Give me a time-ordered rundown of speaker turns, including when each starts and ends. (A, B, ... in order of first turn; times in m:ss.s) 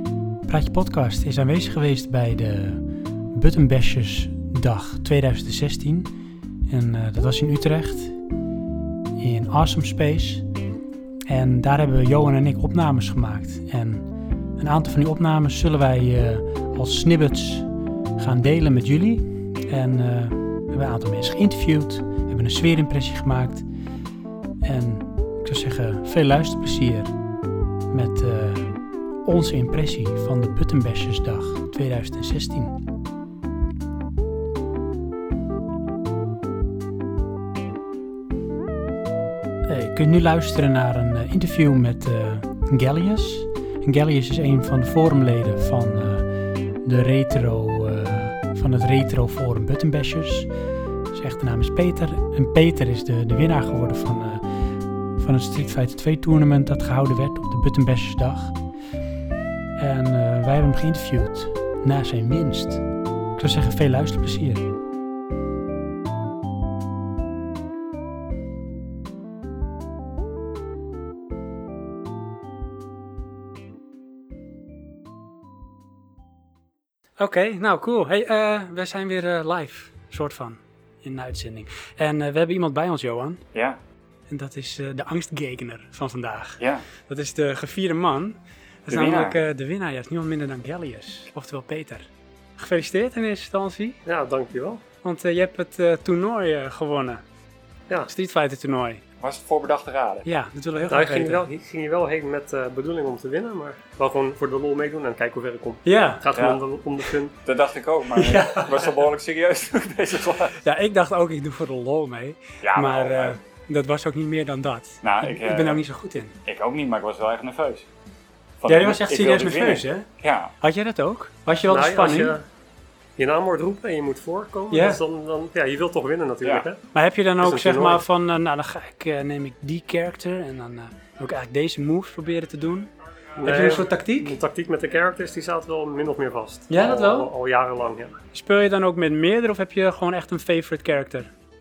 0:00.4-0:06.1 A
0:06.7-0:08.2 A
0:09.2-0:10.5 A
0:11.3-0:23.6 A
0:24.6-0:27.1 A
0:27.9-0:32.8 A
0:39.7-0:46.3 A
0:46.8-0:50.5 A
0:51.1-0:54.4 A
0:55.1-0:58.5 A
0:59.8-1:02.8 A
1:03.4-1:04.7 A
1:17.2-1:23.4 A
1:23.5-1:23.8 B
1:24.3-1:32.1 A
1:26.6-1:26.8 B
1:28.9-1:29.4 B
1:32.6-1:34.0 A
1:34.0-1:34.8 C
1:35.0-1:37.2 A
1:38.1-1:39.0 A
1:39.2-1:40.3 B
1:40.2-1:41.4 A
1:40.9-1:47.3 C
1:45.8-1:46.2 A
1:46.3-1:46.6 B
1:47.4-1:50.6 B
1:48.1-1:48.9 A
1:50.6-1:56.3 A
1:52.6-1:53.4 B
1:55.0-1:55.8 B
1:56.4-1:57.8 B
1:58.6-2:00.5 B
1:58.7-2:00.1 A
2:00.6-2:02.4 A
2:01.7-2:02.4 C
2:03.2-2:06.8 C
2:04.7-2:05.0 A
2:06.9-2:12.9 A
2:07.4-2:08.0 C
2:13.4-2:18.2 C
2:13.4-2:14.4 A
2:16.7-2:17.3 A
2:18.3-2:21.3 A